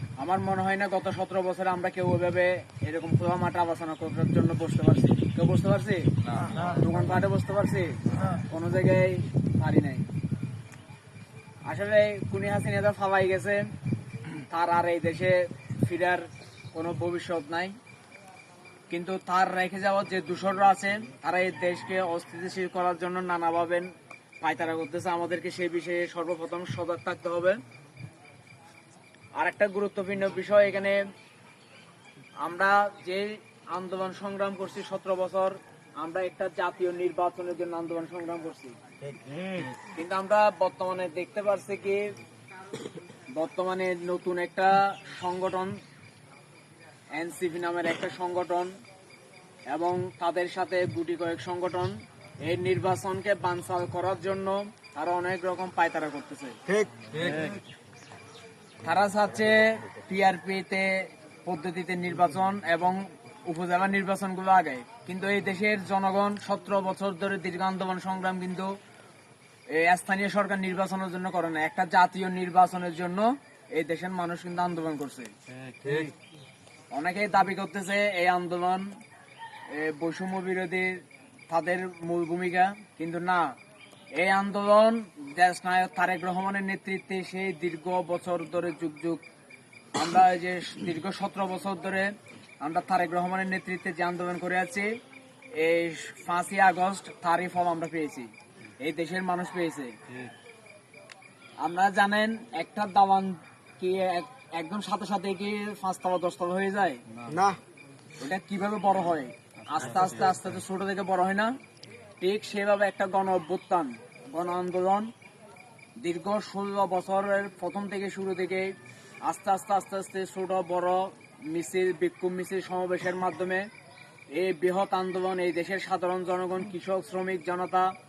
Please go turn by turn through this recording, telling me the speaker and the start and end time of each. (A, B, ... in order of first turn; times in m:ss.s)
0:00.2-0:10.1 A
0:11.6-0:13.6 A
0:14.3-0:17.8 A
0:18.9-0:27.6 A
0:29.4-0:31.1 A
0:32.4-0:38.8 A
0:39.2-0:39.6 B
0:39.8-0:42.1 A
0:43.3-0:45.8 A
0:47.1-0:48.7 A
0:49.7-0:56.6 A
0:56.7-0:57.5 B
0:58.8-1:08.7 A
1:09.7-1:15.3 A
1:15.7-1:16.1 B
1:16.9-1:18.9 A
1:19.7-1:23.5 A
1:24.2-1:29.2 A
1:29.9-1:34.9 A
1:35.5-1:40.0 A
1:41.6-1:47.0 A
1:47.2-1:47.6 B
1:48.2-1:51.5 A
1:52.2-1:55.1 A
1:56.0-2:03.7 A
2:04.3-2:07.9 A